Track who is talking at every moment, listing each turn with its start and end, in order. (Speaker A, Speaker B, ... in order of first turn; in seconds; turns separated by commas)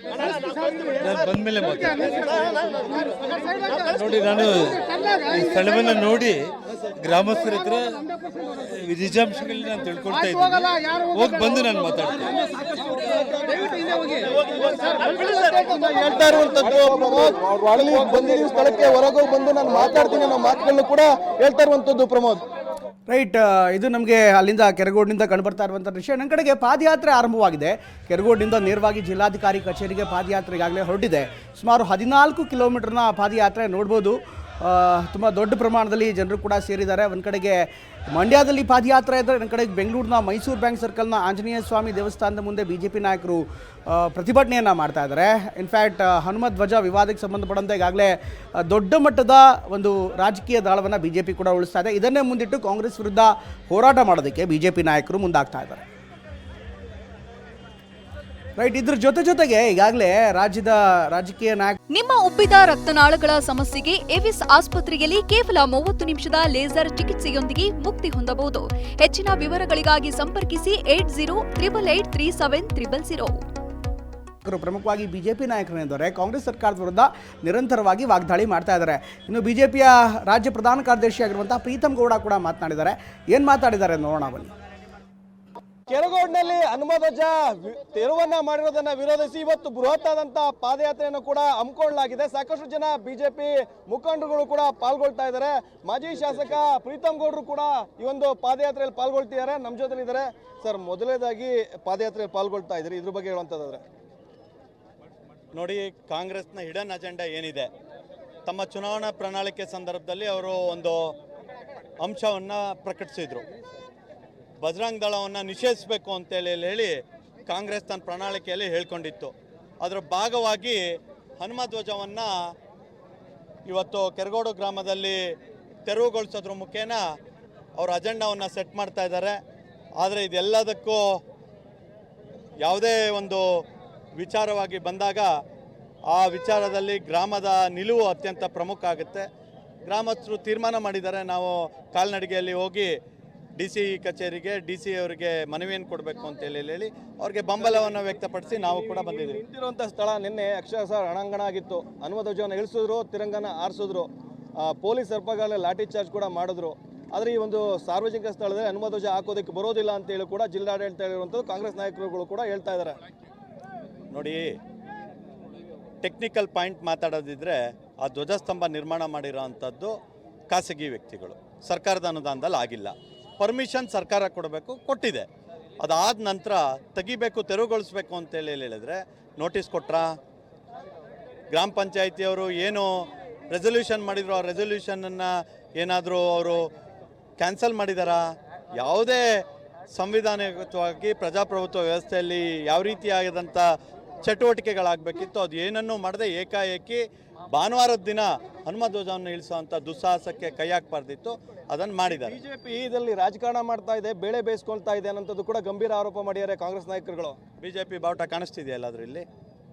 Speaker A: 1.0-2.3, Speaker A: 3.7-12.4, Speaker B: 14.4-22.4, Speaker C: 23.1-55.8, Speaker C: 58.6-61.8, Speaker D: 61.9-73.4, Speaker C: 74.4-84.5, Speaker B: 85.9-103.8, Speaker E: 105.5-107.7, Speaker E: 108.5-111.1, Speaker E: 112.0-113.5, Speaker E: 114.6-120.8, Speaker E: 121.4-122.3, Speaker E: 123.7-125.2, Speaker E: 125.9-127.0, Speaker E: 127.8-129.4, Speaker E: 130.0-131.2, Speaker E: 132.6-133.4, Speaker E: 134.2-135.3, Speaker E: 136.1-139.3, Speaker E: 139.9-142.9, Speaker E: 143.6-149.4, Speaker B: 148.6-163.0, Speaker E: 164.1-164.6, Speaker E: 166.0-169.9, Speaker E: 170.5-175.3, Speaker E: 175.8-180.1, Speaker E: 181.5-186.6, Speaker E: 187.4-188.2, Speaker E: 188.8-189.4, Speaker E: 189.9-193.7, Speaker E: 194.2-202.4, Speaker B: 202.1-207.4, Speaker E: 207.6-209.2